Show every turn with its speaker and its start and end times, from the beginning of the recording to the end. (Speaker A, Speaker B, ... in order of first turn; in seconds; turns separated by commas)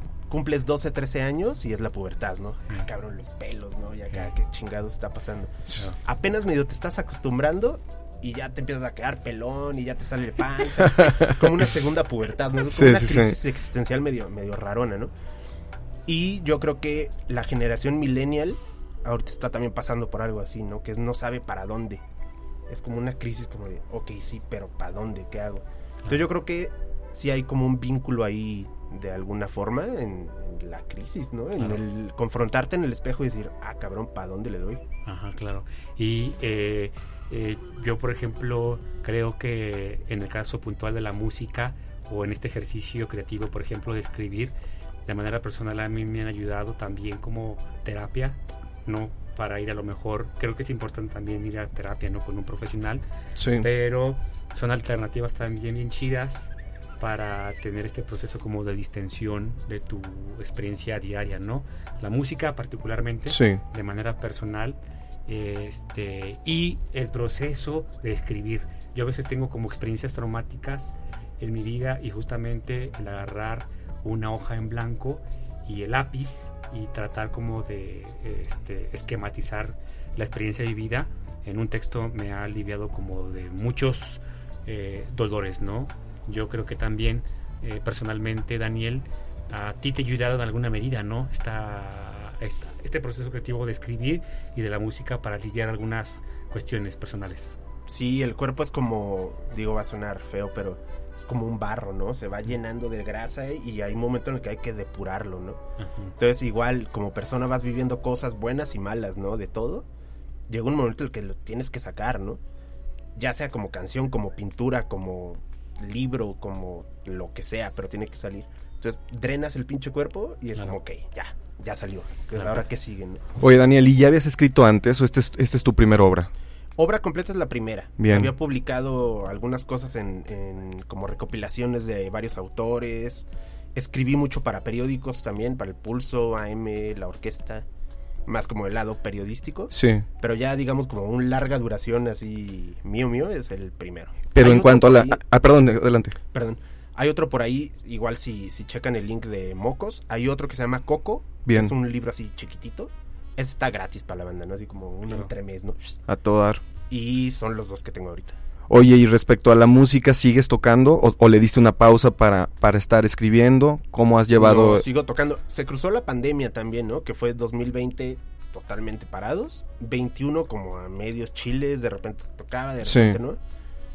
Speaker A: 0.3-15.1, Speaker B: 11.0-11.3, Speaker B: 12.6-13.4, Speaker A: 16.1-22.0, Speaker A: 22.7-34.8, Speaker C: 31.6-31.8, Speaker C: 35.0-44.5, Speaker C: 45.0-53.0, Speaker B: 53.4-53.6, Speaker C: 53.6-97.5, Speaker B: 63.3-63.6, Speaker A: 97.9-105.6, Speaker C: 105.8-106.1, Speaker A: 106.2-109.8, Speaker A: 110.5-112.4, Speaker A: 113.2-123.2, Speaker B: 123.4-126.3, Speaker A: 126.8-137.6, Speaker B: 128.0-128.3, Speaker A: 138.3-145.2, Speaker B: 139.7-140.0, Speaker B: 144.3-146.1, Speaker A: 146.3-155.9, Speaker B: 151.4-151.7, Speaker B: 156.1-156.6, Speaker A: 156.9-158.4, Speaker B: 158.7-164.8, Speaker A: 164.3-173.4, Speaker B: 172.8-173.2